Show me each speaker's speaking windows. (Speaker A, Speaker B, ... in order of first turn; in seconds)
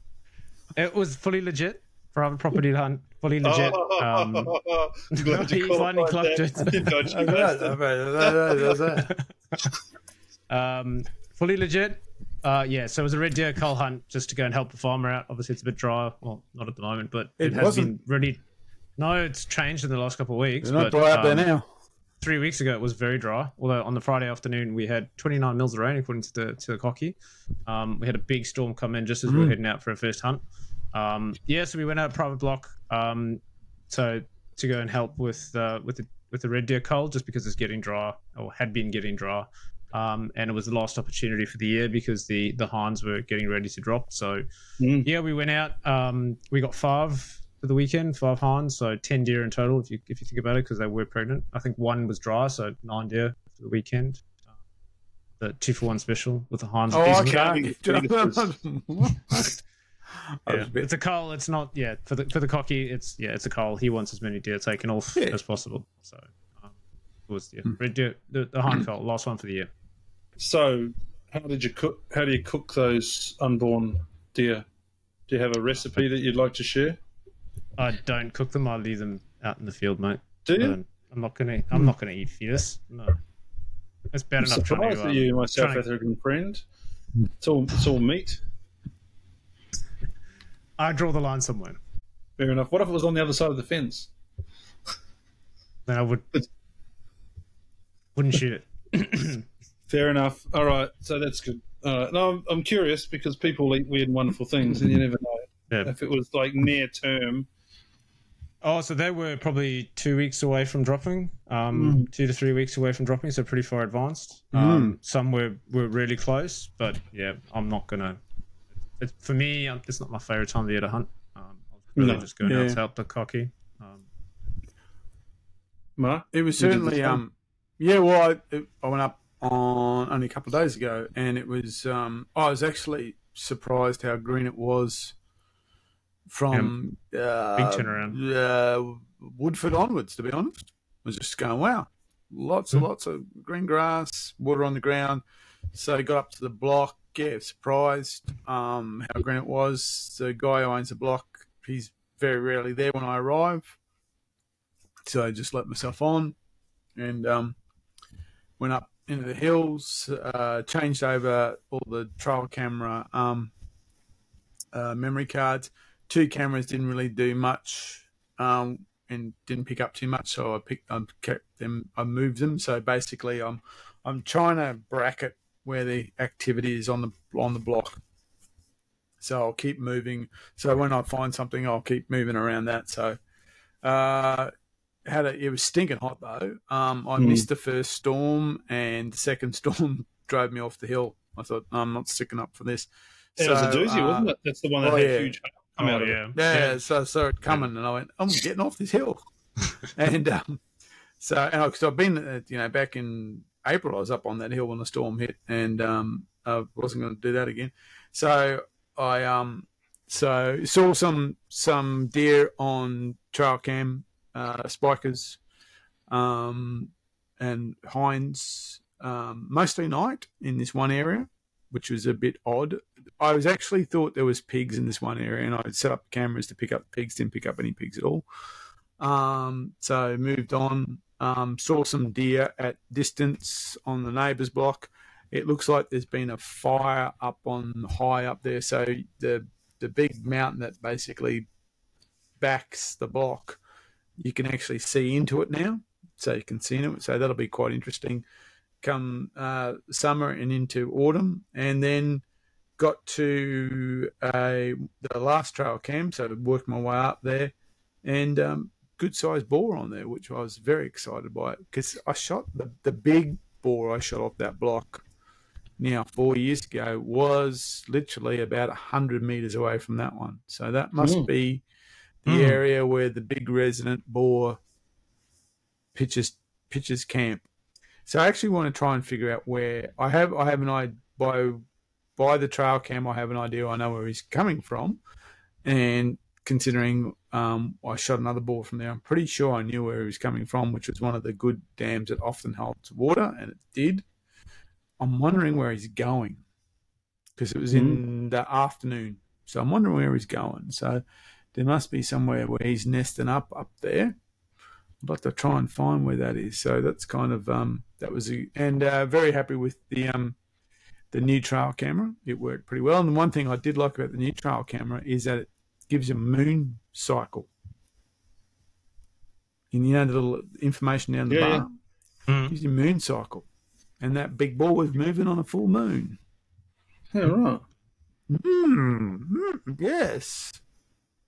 Speaker A: 0.7-4.5, 5.1-7.0, 10.5-18.4, 19.0-21.4, 22.2-44.4, 45.0-54.3, 55.4-57.4, 60.5-66.7, 67.3-69.7, 77.8-83.2, 84.1-85.8, 90.8-91.8, 95.9-96.4, 98.2-99.4, 108.6-118.2, 119.0-124.0, 137.6-138.2, 195.8-196.7, 272.3-272.6, 322.3-322.5
Speaker B: 3.4-8.5, 44.8-45.1, 57.0-58.4, 70.4-74.6, 75.3-77.0, 80.4-80.8, 84.4-86.6, 87.4-88.4, 92.4-94.1, 99.9-107.5, 111.7-112.1, 122.0-122.3, 126.0-127.2, 187.2-187.4, 193.4-196.3, 271.0-271.3, 297.7-298.0, 321.3-321.6, 327.1-327.6
Speaker C: 7.0-9.1, 17.4-18.0, 20.6-21.7, 29.3-29.5, 56.9-59.6, 60.3-60.9, 114.5-115.0, 122.0-122.8, 126.3-135.2, 136.3-145.2, 145.7-153.8, 155.1-156.3, 157.0-157.6, 158.6-163.5, 164.7-178.0, 179.2-183.2, 183.8-184.5, 185.1-194.3, 194.8-195.4, 195.9-199.2, 199.7-200.6, 201.2-215.4, 216.1-228.2, 229.0-241.5, 242.4-243.6, 244.2-248.2, 248.8-252.2, 252.8-265.0, 265.8-271.6, 272.2-274.6, 275.9-277.4, 278.1-281.6, 282.2-285.0, 285.6-294.0, 295.0-296.4, 297.4-301.0, 301.5-304.1, 305.0-310.4, 311.1-317.5, 319.7-321.7, 322.5-323.5, 324.0-326.2, 328.3-330.6